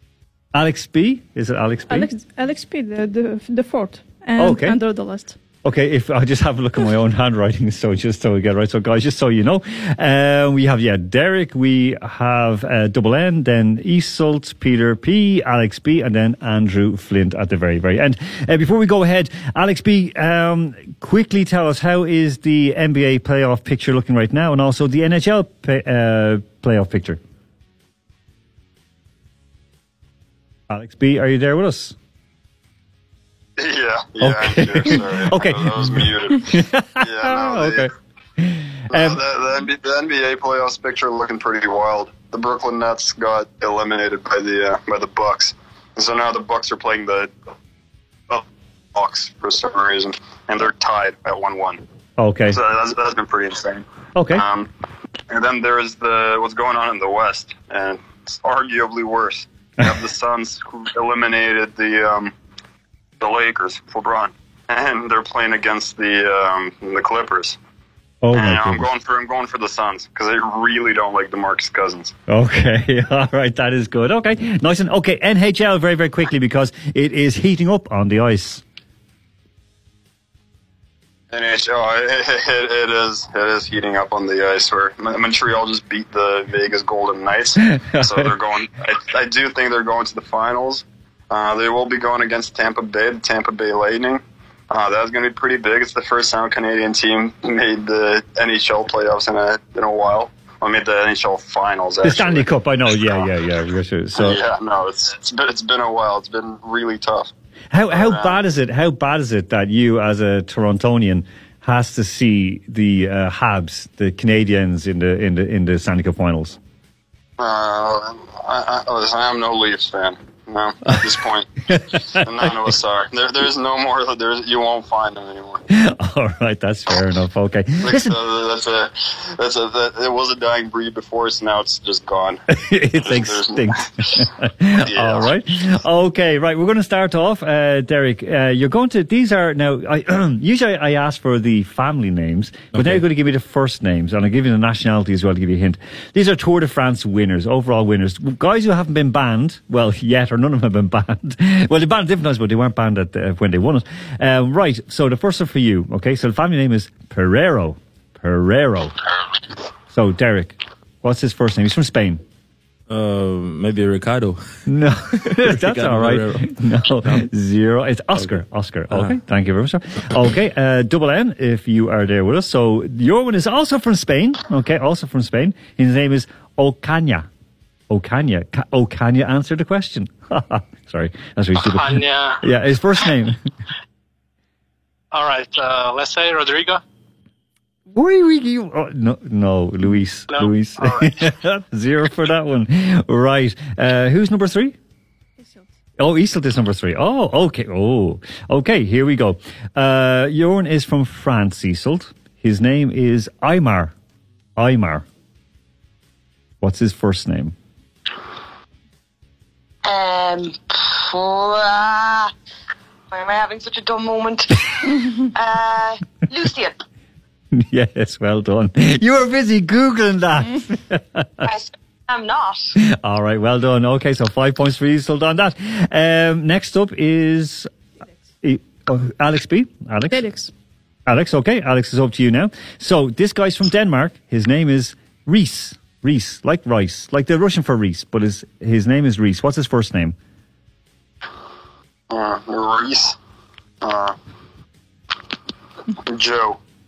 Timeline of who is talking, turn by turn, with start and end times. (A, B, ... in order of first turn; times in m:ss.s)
0:00.5-0:02.1 A
0:01.9-0:05.4 B
0:04.4-0:04.8 A
0:05.6-0:27.2 A
0:30.7-0:32.0 A
0:33.6-0:37.9 C
0:34.2-0:39.2 A
0:38.9-0:47.3 C
0:48.3-0:51.8 C
0:52.2-0:52.6 A
0:52.5-0:54.7 C
0:54.2-0:54.5 A
0:55.3-1:02.3 C
1:03.2-1:07.6 C
1:08.2-1:08.9 A
1:08.3-1:12.1 C
1:12.3-1:18.6 A
1:21.3-1:42.5 C
1:27.9-1:28.3 A
1:42.0-1:44.4 A
1:44.2-1:47.3 C
1:47.7-1:56.6 A
1:47.9-1:48.4 C
1:57.4-2:01.5 C
2:01.7-2:02.7 A
2:02.1-2:05.6 C
2:05.7-2:08.2 A
2:07.8-2:12.4 C
2:12.5-2:39.0 A
2:13.0-2:13.6 C
2:14.9-2:15.3 C
2:22.7-2:23.0 D
2:39.9-2:42.2 A
2:42.9-2:44.6 D
2:44.7-2:57.3 A
2:45.2-2:47.3 D
2:57.9-3:03.4 A
3:01.6-3:02.4 E
3:05.1-3:06.8 E
3:07.9-3:14.8 A
3:16.0-3:23.9 A
3:24.6-3:25.1 A
3:26.6-3:27.6 A
3:29.8-3:32.3 F
3:33.1-3:36.8 F
3:37.5-3:41.5 A
3:41.4-3:42.8 F
3:42.8-3:47.7 A
3:48.4-3:50.2 A
3:50.1-3:50.5 B
3:51.1-4:00.2 A
4:02.1-4:03.2 C
4:03.8-4:04.2 C
4:06.0-4:06.6 C